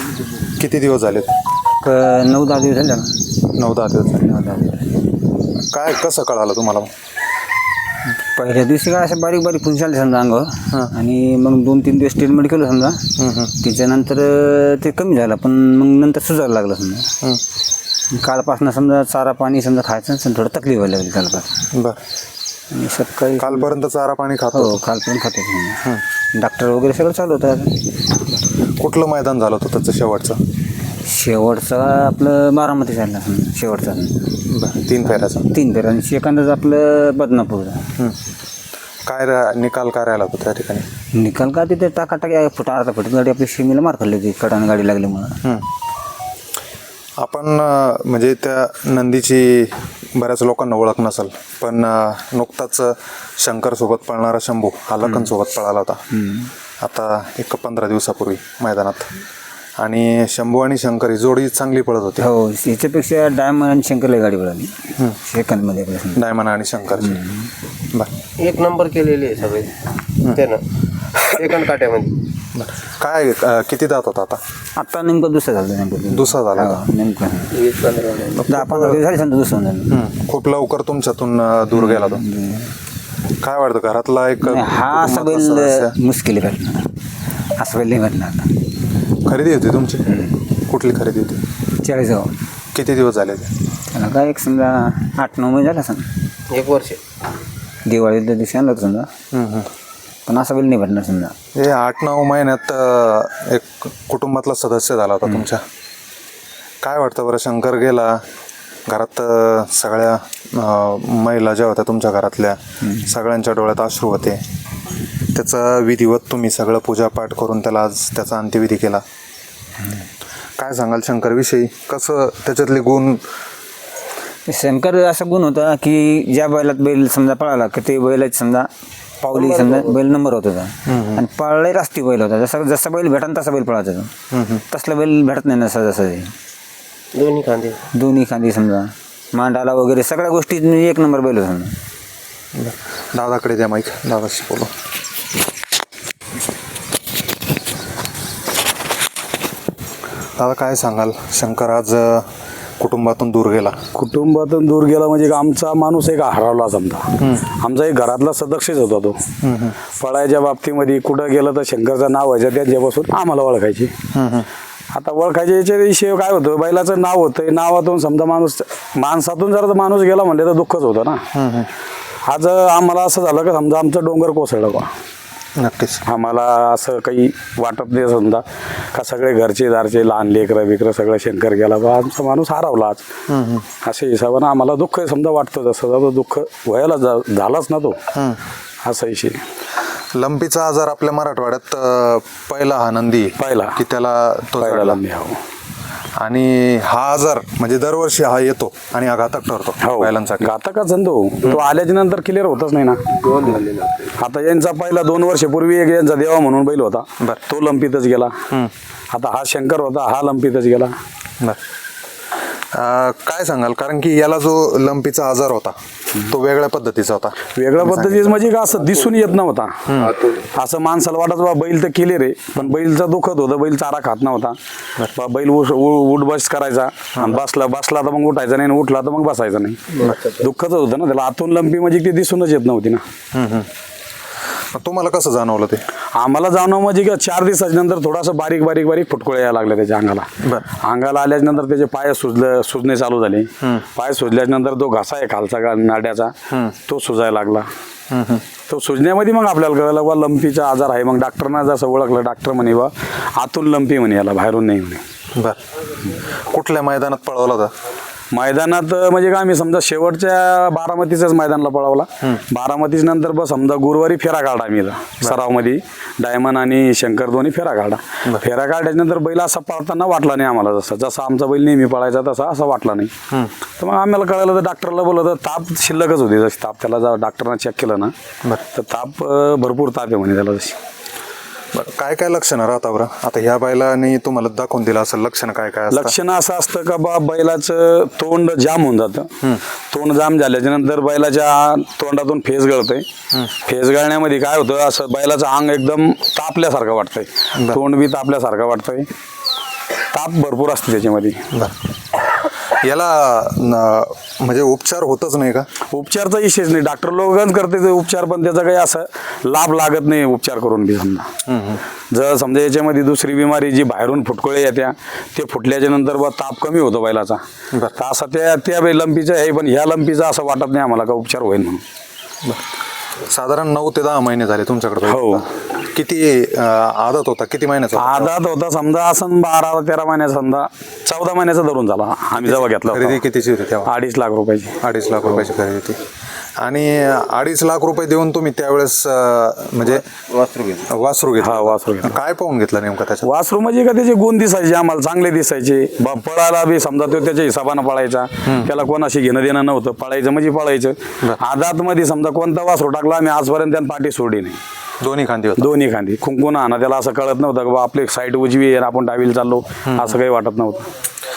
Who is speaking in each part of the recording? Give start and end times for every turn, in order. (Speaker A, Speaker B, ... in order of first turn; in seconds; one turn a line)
Speaker A: 0.6-1.3
Speaker B: 1.8-3.2
Speaker A: 3.5-4.3
Speaker B: 4.2-4.9
Speaker A: 5.6-6.9
Speaker B: 8.3-17.1
Speaker A: 13.2-13.5
Speaker B: 18.1-21.6
Speaker A: 21.7-22.0
Speaker B: 22.7-23.6
Speaker A: 23.4-24.8
Speaker B: 24.5-27.8
Speaker A: 28.8-30.4
Speaker B: 31.0-34.3
Speaker A: 34.5-35.5
Speaker B: 35.4-37.9
Speaker A: 39.1-40.9
Speaker B: 41.1-45.4
Speaker A: 47.2-56.0
Speaker A: 56.8-59.1
Speaker A: 59.8-62.3
Speaker B: 62.2-66.2
Speaker A: 66.1-67.2
Speaker B: 67.1-67.5
Speaker C: 68.4-69.7
Speaker C: 70.3-70.6
Speaker C: 71.2-72.2
Speaker A: 72.5-74.4
Speaker B: 74.8-77.5
Speaker A: 76.1-76.8
Speaker C: 77.5-79.0
Speaker B: 78.5-79.9
Speaker A: 79.9-82.2
Speaker B: 81.7-82.7
Speaker A: 83.4-85.9
Speaker B: 84.4-86.9
Speaker B: 87.5-88.5
Speaker A: 89.2-91.4
Speaker B: 91.8-92.3
Speaker A: 92.7-93.5
Speaker B: 93.9-96.1
Speaker C: 96.5-97.0
Speaker B: 97.8-99.1
Speaker A: 99.3-99.7
Speaker B: 100.2-101.3
Speaker A: 101.5-105.6
Speaker A: 106.8-108.2
Speaker A: 108.9-114.4
Speaker A: 115.3-119.0
Speaker A: 120.6-123.2
Speaker B: 124.5-128.7
Speaker B: 129.2-134.1
Speaker C: 129.3-129.9
Speaker A: 130.9-131.2
Speaker A: 134.3-134.6
Speaker B: 134.7-136.3
Speaker C: 137.1-137.8
Speaker B: 137.9-141.8
Speaker A: 142.6-144.7
Speaker A: 150.4-152.3
Speaker A: 152.8-153.8
Speaker D: 153.9-157.1
Speaker A: 157.2-157.4
Speaker D: 157.6-159.2
Speaker A: 159.4-159.8
Speaker D: 160.0-163.9
Speaker A: 164.1-164.5
Speaker D: 164.9-171.2
Speaker A: 171.3-171.7
Speaker D: 172.3-174.9
Speaker A: 175.6-176.0
Speaker D: 176.1-178.4
Speaker D: 178.9-183.0
Speaker A: 183.3-183.6
Speaker D: 183.8-187.9
Speaker D: 188.8-189.4
Speaker A: 190.1-195.0
Speaker D: 193.4-193.8
Speaker D: 194.6-195.4
Speaker A: 196.2-200.5
Speaker D: 199.8-203.6
Speaker D: 204.2-208.3
Speaker D: 209.1-210.9
Speaker A: 212.7-218.4
Speaker D: 217.6-224.6
Speaker A: 219.9-220.2
Speaker D: 225.2-233.0
Speaker A: 227.2-227.4
Speaker A: 233.3-233.7
Speaker A: 234.7-235.8
Speaker D: 236.2-240.3
Speaker D: 240.8-246.3
Speaker D: 246.9-247.7
Speaker A: 248.1-248.4
Speaker D: 248.7-255.0
Speaker A: 256.2-257.7
Speaker D: 258.3-273.1
Speaker D: 273.8-278.1
Speaker D: 278.7-280.8
Speaker A: 281.7-286.1
Speaker D: 285.9-289.3
Speaker D: 289.9-293.1
Speaker D: 293.6-299.1
Speaker A: 297.5-297.8
Speaker D: 300.1-301.4
Speaker A: 302.8-305.7
Speaker D: 305.9-311.3
Speaker A: 311.5-311.8
Speaker D: 312.1-317.4
Speaker D: 317.9-321.8
Speaker A: 323.3-328.3
Speaker D: 325.1-325.4
Speaker D: 327.9-333.2
Speaker A: 332.4-333.9
Speaker D: 333.9-334.7
Speaker A: 334.8-336.0
Speaker A: 336.6-340.0
Speaker C: 340.3-340.8
Speaker A: 340.9-343.3
Speaker D: 341.4-342.1
Speaker D: 343.2-354.6
Speaker A: 355.0-355.7
Speaker D: 355.6-360.9
Speaker A: 359.9-360.2